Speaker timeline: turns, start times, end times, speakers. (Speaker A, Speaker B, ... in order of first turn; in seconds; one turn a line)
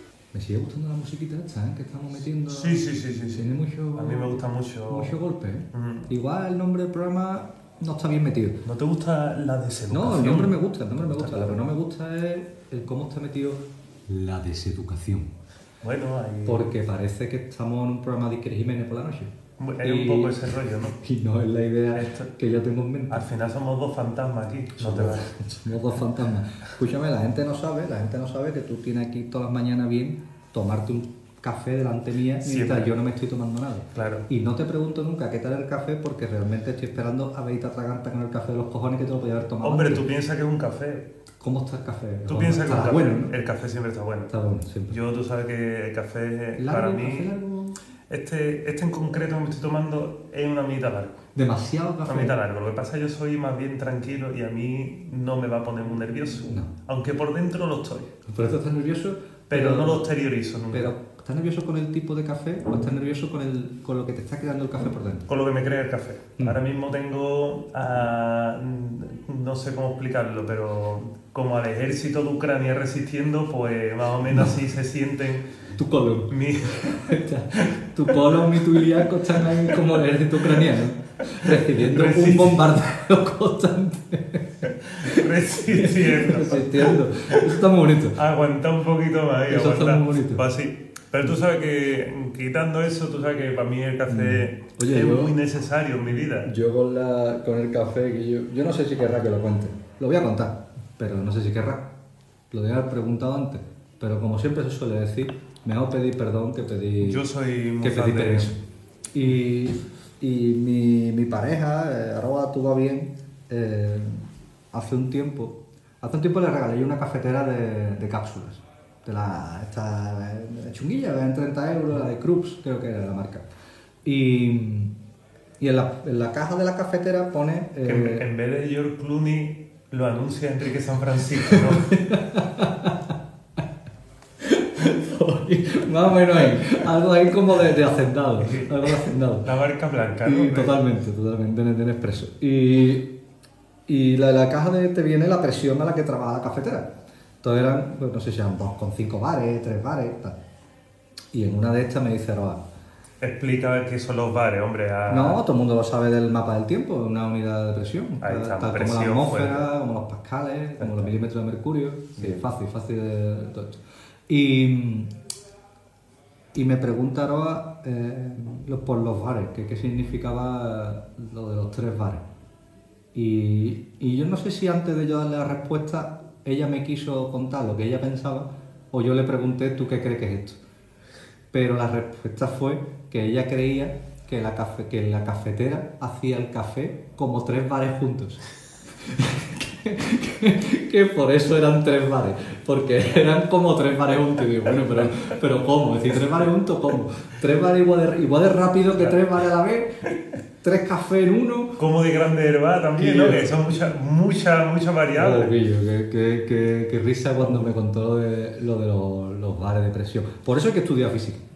Speaker A: 0.3-8.6
Speaker B: 2.5-5.2
Speaker B: 5.7-6.1
Speaker B: 8.6-11.6
Speaker A: 9.9-15.3
Speaker B: 15.8-16.7
Speaker A: 16.4-23.3
Speaker B: 19.6-21.0
Speaker B: 21.9-22.3
Speaker B: 23.1-25.3
Speaker A: 24.8-40.1
Speaker B: 32.4-32.9
Speaker B: 34.0-34.3
Speaker B: 39.6-41.1
Speaker A: 41.4-43.4
Speaker B: 42.3-44.3
Speaker A: 44.3-45.0
Speaker B: 44.9-47.3
Speaker A: 46.6-47.8
Speaker B: 48.1-51.2
Speaker A: 51.4-52.4
Speaker B: 52.0-58.1
Speaker A: 58.3-60.1
Speaker B: 59.5-60.9
Speaker A: 60.7-65.3
Speaker B: 65.3-75.5
Speaker A: 74.3-74.6
Speaker A: 75.8-88.2
Speaker B: 76.3-80.7
Speaker B: 81.3-82.7
Speaker B: 84.6-96.5
Speaker A: 89.5-90.4
Speaker A: 94.1-95.3
Speaker A: 96.5-101.9
Speaker A: 102.5-107.2
Speaker B: 107.0-108.6
Speaker A: 107.8-108.6
Speaker A: 109.1-123.5
Speaker A: 124.0-124.9
Speaker A: 125.6-128.3
Speaker B: 127.8-132.0
Speaker A: 131.4-133.1
Speaker A: 134.4-139.5
Speaker B: 138.4-140.8
Speaker A: 140.2-143.1
Speaker A: 143.9-150.4
Speaker A: 151.3-152.6
Speaker B: 153.2-155.4
Speaker A: 155.1-165.1
Speaker B: 158.2-159.7
Speaker B: 160.8-161.1
Speaker B: 162.2-162.4
Speaker A: 166.6-172.2
Speaker A: 173.1-180.6
Speaker A: 181.5-188.4
Speaker A: 189.0-201.8
Speaker B: 201.8-205.6
Speaker A: 203.0-203.6
Speaker A: 205.1-211.4
Speaker B: 207.4-207.7